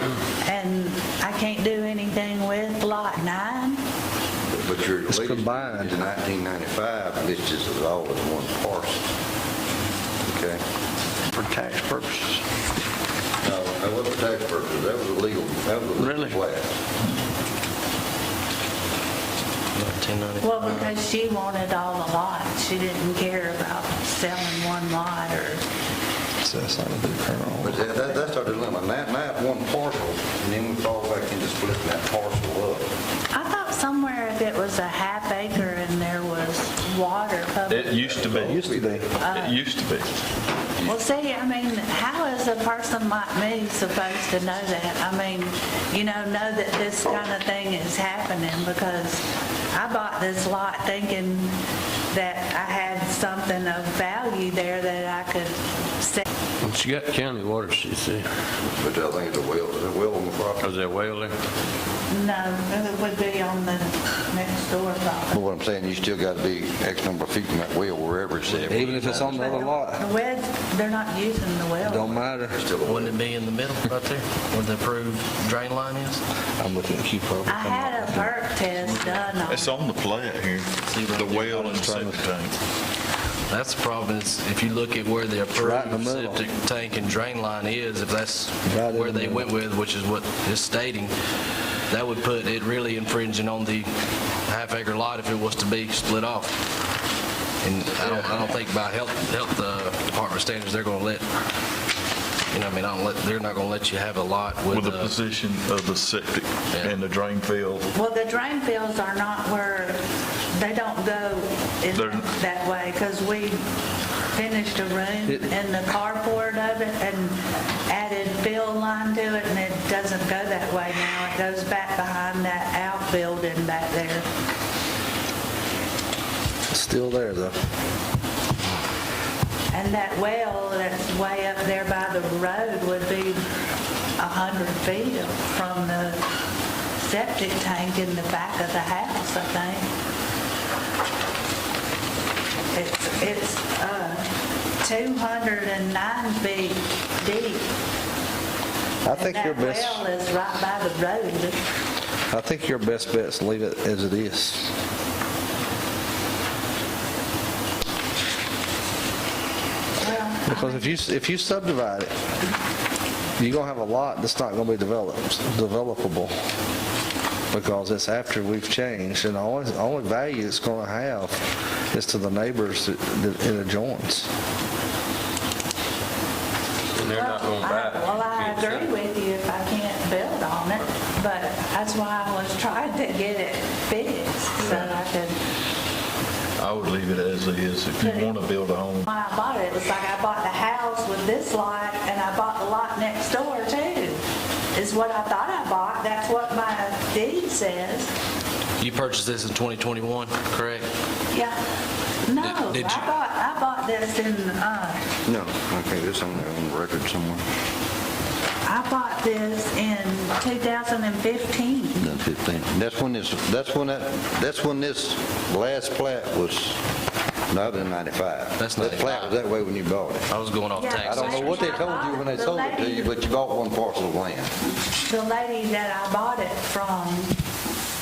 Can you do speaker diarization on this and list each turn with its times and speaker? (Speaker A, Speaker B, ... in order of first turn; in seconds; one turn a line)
Speaker A: 0.3-3.8
Speaker B: 4.5-9.0
Speaker C: 5.1-6.0
Speaker B: 10.2-10.6
Speaker C: 11.3-12.4
Speaker B: 13.4-16.7
Speaker D: 16.0-16.3
Speaker E: 19.7-20.9
Speaker A: 20.4-25.6
Speaker C: 26.4-27.8
Speaker B: 27.6-32.9
Speaker A: 33.3-38.3
Speaker F: 37.7-38.7
Speaker C: 38.3-39.1
Speaker B: 38.4-39.0
Speaker A: 39.2-39.6
Speaker F: 39.2-40.1
Speaker A: 40.8-51.5
Speaker A: 52.1-56.2
Speaker D: 56.6-58.3
Speaker B: 58.6-60.8
Speaker D: 60.6-61.3
Speaker A: 62.1-65.4
Speaker B: 65.3-69.4
Speaker C: 68.6-70.1
Speaker A: 69.1-72.2
Speaker C: 71.8-72.6
Speaker B: 72.5-73.2
Speaker E: 72.8-76.2
Speaker C: 76.6-78.4
Speaker A: 77.5-79.7
Speaker F: 79.0-82.6
Speaker E: 80.8-81.8
Speaker C: 81.7-82.2
Speaker E: 83.5-91.1
Speaker C: 85.5-86.4
Speaker C: 88.7-89.5
Speaker E: 91.9-93.9
Speaker E: 94.5-96.6
Speaker E: 97.6-101.3
Speaker F: 98.0-98.3
Speaker E: 102.5-105.1
Speaker F: 104.7-107.9
Speaker A: 107.9-110.0
Speaker A: 110.5-113.6
Speaker F: 111.9-112.2
Speaker A: 114.3-124.3
Speaker C: 126.7-127.6
Speaker A: 129.7-133.4
Speaker A: 134.2-136.2
Speaker A: 137.0-139.9
Speaker A: 142.7-144.3
Speaker A: 144.8-147.7
Speaker C: 149.0-150.0
Speaker A: 149.1-151.6
Speaker C: 152.3-154.7
Speaker A: 160.0-160.9
Speaker C: 160.4-162.1
Speaker C: 163.4-166.3
Speaker C: 167.5-171.4
Speaker C: 171.9-174.3
Speaker D: 176.9-178.9
Speaker A: 177.1-185.3
Speaker F: 184.6-185.0
Speaker F: 186.6-189.1
Speaker A: 188.0-188.3
Speaker A: 189.0-194.2
Speaker A: 194.7-198.1
Speaker E: 198.8-200.9
Speaker A: 201.3-201.6
Speaker A: 202.2-205.0
Speaker E: 202.4-203.1
Speaker B: 205.2-207.4
Speaker A: 208.6-212.0
Speaker B: 212.0-216.8
Speaker B: 217.5-220.3
Speaker E: 218.6-219.4
Speaker E: 220.3-221.9
Speaker A: 220.8-223.1
Speaker B: 221.0-224.5
Speaker A: 225.1-227.3